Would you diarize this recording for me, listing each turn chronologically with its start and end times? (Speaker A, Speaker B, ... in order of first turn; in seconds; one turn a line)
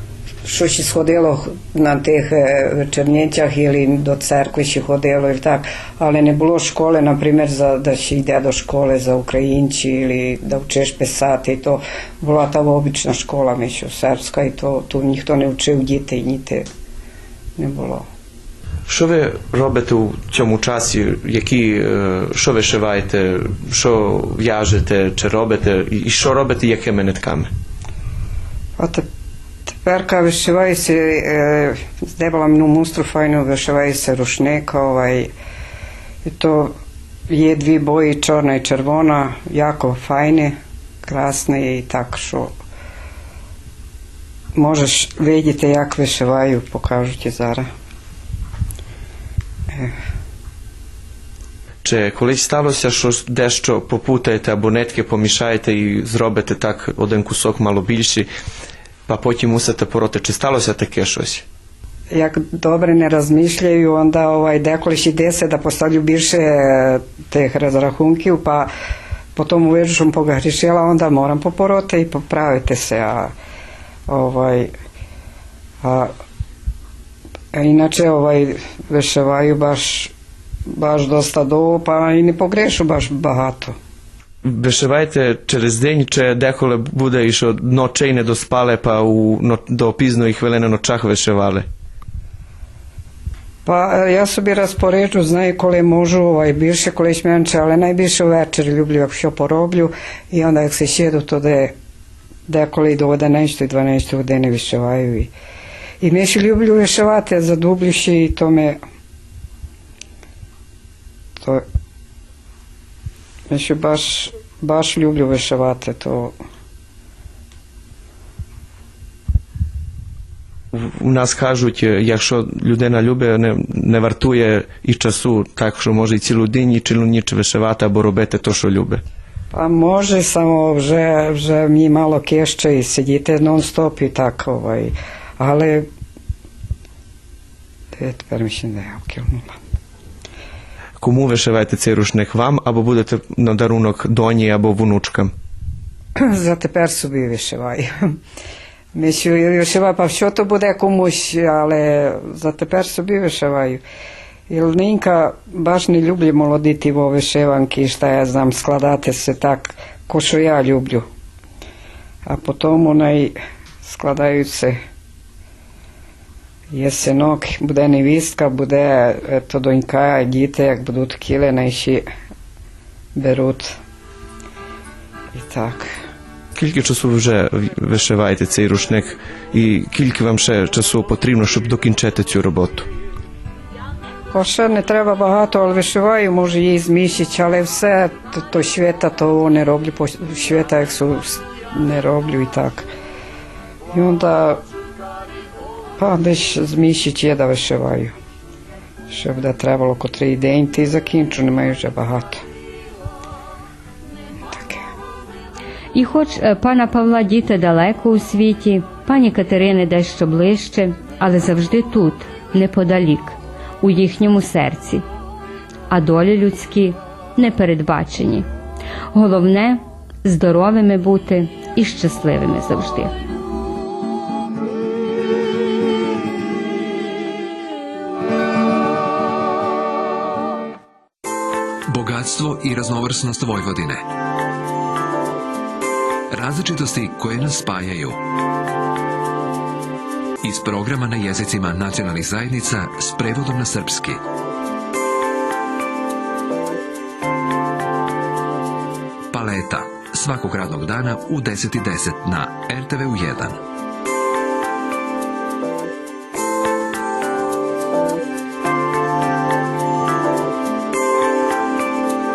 Speaker A: 0.4-16.6
Speaker A: 17.6-18.0
Speaker B: 18.9-27.5
Speaker A: 28.8-29.1
Speaker A: 29.6-35.3
Speaker A: 36.2-36.7
Speaker A: 37.3-42.5
Speaker A: 44.5-47.7
Speaker B: 51.8-58.3
Speaker B: 59.1-61.4
Speaker A: 62.1-68.7
Speaker A: 69.3-73.3
Speaker A: 74.1-74.7
Speaker A: 75.8-76.1
Speaker A: 77.5-80.1
Speaker A: 80.7-83.8
Speaker B: 84.4-91.7
Speaker A: 93.6-101.7
Speaker A: 102.5-105.3
Speaker A: 106.0-108.8
Speaker A: 111.4-111.6
Speaker A: 113.5-116.3
Speaker B: 120.7-129.0
Speaker A: 129.5-135.9
Speaker A: 137.9-139.6
Speaker B: 141.0-145.3
Speaker A: 146.2-148.2
Speaker A: 148.9-153.8
Speaker A: 154.5-161.1
Speaker A: 162.2-164.8
Speaker A: 166.7-172.0
Speaker A: 173.1-173.8
Speaker A: 175.3-175.9
Speaker B: 176.5-182.9
Speaker A: 184.3-192.9
Speaker A: 193.9-194.6
Speaker A: 196.0-198.1
Speaker A: 199.1-202.4
Speaker A: 204.5-204.8
Speaker C: 205.9-215.0
Speaker C: 215.9-218.4
Speaker C: 219.1-223.1
Speaker D: 231.9-234.0
Speaker D: 236.3-238.2
Speaker D: 240.4-244.2
Speaker D: 249.3-253.6